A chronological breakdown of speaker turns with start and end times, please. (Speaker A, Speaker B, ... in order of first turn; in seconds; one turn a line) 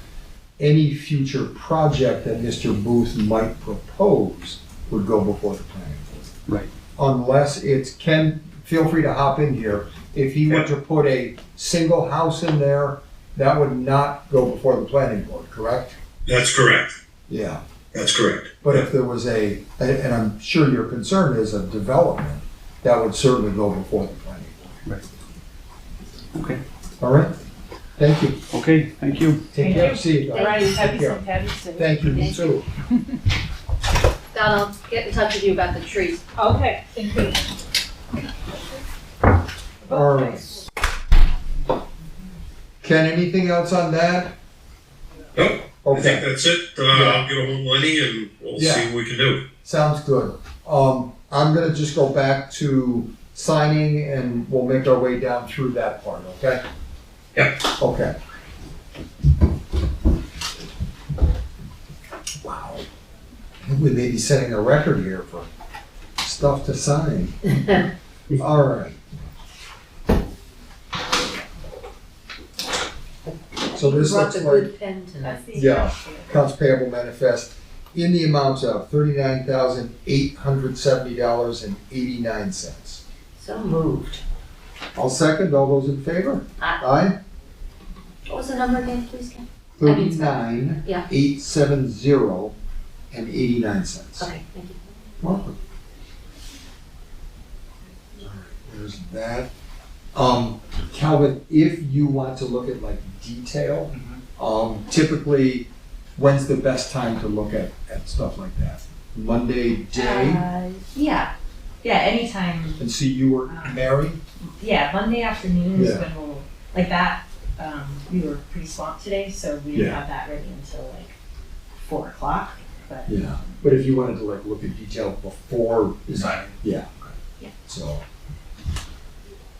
Speaker A: 0.6-6.3
Speaker A: 7.0-15.9
Speaker B: 16.3-17.0
Speaker A: 17.3-17.6
Speaker B: 17.9-18.9
Speaker A: 18.6-24.8
Speaker C: 26.3-26.6
Speaker A: 27.0-27.3
Speaker A: 28.0-28.4
Speaker C: 28.5-29.5
Speaker A: 29.5-32.6
Speaker D: 29.6-32.6
Speaker E: 30.3-30.7
Speaker E: 32.1-32.5
Speaker E: 34.3-36.2
Speaker D: 36.4-37.5
Speaker D: 39.8-40.5
Speaker A: 39.9-40.5
Speaker A: 42.8-44.4
Speaker B: 45.4-49.5
Speaker A: 45.8-46.3
Speaker A: 46.9-47.2
Speaker A: 48.6-48.9
Speaker A: 49.6-56.6
Speaker B: 57.3-57.6
Speaker A: 57.8-58.1
Speaker A: 62.4-62.8
Speaker A: 63.6-65.5
Speaker A: 66.2-67.5
Speaker A: 68.3-69.0
Speaker E: 73.7-75.5
Speaker A: 73.7-74.7
Speaker F: 75.2-76.4
Speaker A: 75.5-83.0
Speaker E: 83.4-84.2
Speaker A: 85.0-87.2
Speaker E: 88.3-91.0
Speaker A: 89.8-92.5
Speaker A: 93.1-94.3
Speaker E: 94.2-94.8
Speaker A: 95.2-95.6
Speaker A: 98.2-99.5
Speaker A: 100.1-110.4
Speaker C: 103.9-104.2
Speaker F: 109.9-111.3
Speaker F: 111.8-112.8
Speaker A: 112.8-114.2
Speaker F: 113.5-113.8
Speaker F: 114.6-121.2
Speaker A: 115.7-116.1
Speaker A: 119.7-120.0
Speaker F: 121.8-123.2
Speaker A: 123.1-127.1
Speaker C: 126.1-126.5
Speaker A: 127.7-128.0